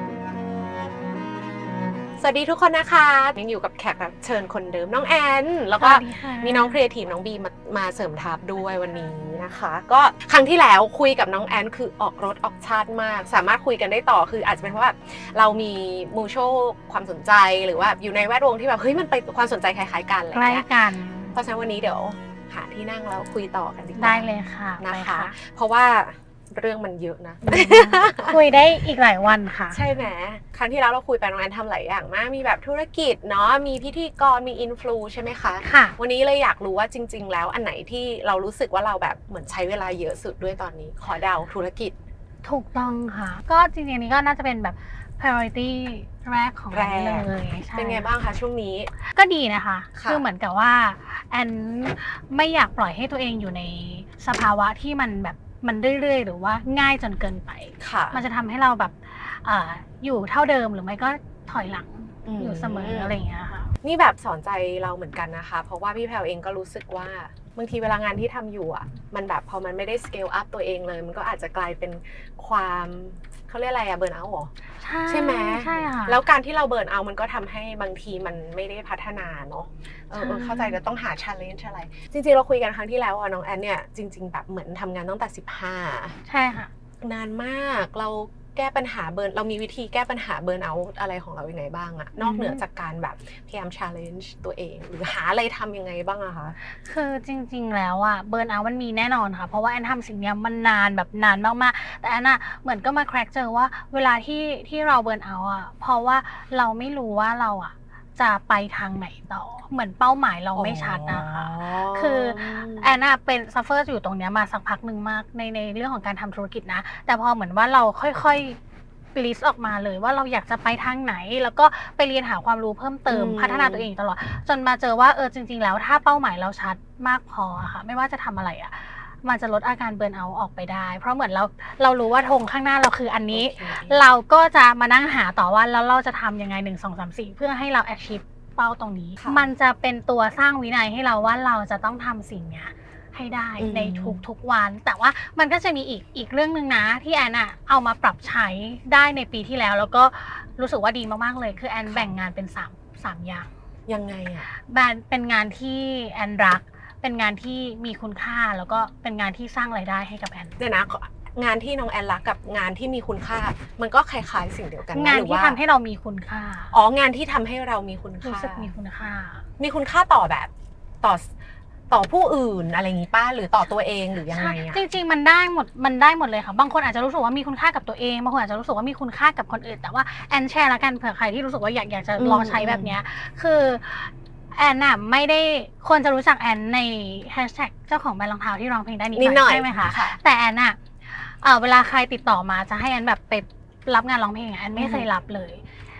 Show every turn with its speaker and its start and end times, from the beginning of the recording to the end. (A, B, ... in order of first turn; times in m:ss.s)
0:02.2-0:20.6 A
0:05.8-0:06.8 B
0:20.3-0:21.3 B
0:21.3-0:28.4 A
0:24.0-0:25.3 B
0:27.4-0:29.8 B
0:29.7-0:41.9 A
0:35.6-0:36.0 B
0:42.4-0:48.0 B
0:46.7-0:48.9 A
0:49.0-1:03.7 B
0:49.9-0:50.2 A
0:57.8-0:58.2 A
1:02.2-1:03.1 A
1:03.8-1:14.5 A
1:14.8-1:16.2 B
1:15.1-1:26.2 A
1:20.2-1:20.7 B
1:26.2-1:26.7 B
1:27.0-1:36.6 A
1:32.2-1:32.6 B
1:36.6-1:58.6 B
1:50.6-1:52.9 A
1:59.1-2:33.5 B
2:03.1-2:03.9 A
2:13.3-2:14.0 A
2:19.2-2:19.4 A
2:23.6-2:24.2 A
2:33.9-2:34.5 A
2:34.6-2:40.6 B
2:40.6-2:45.6 A
2:44.9-2:46.7 B
2:46.7-2:48.7 A
2:48.2-2:49.4 B
2:49.6-2:50.5 A
2:51.0-2:51.3 A
2:51.9-2:54.8 A
2:54.3-3:15.6 B
3:02.2-3:02.9 A
3:09.1-3:10.2 A
3:14.7-3:15.1 A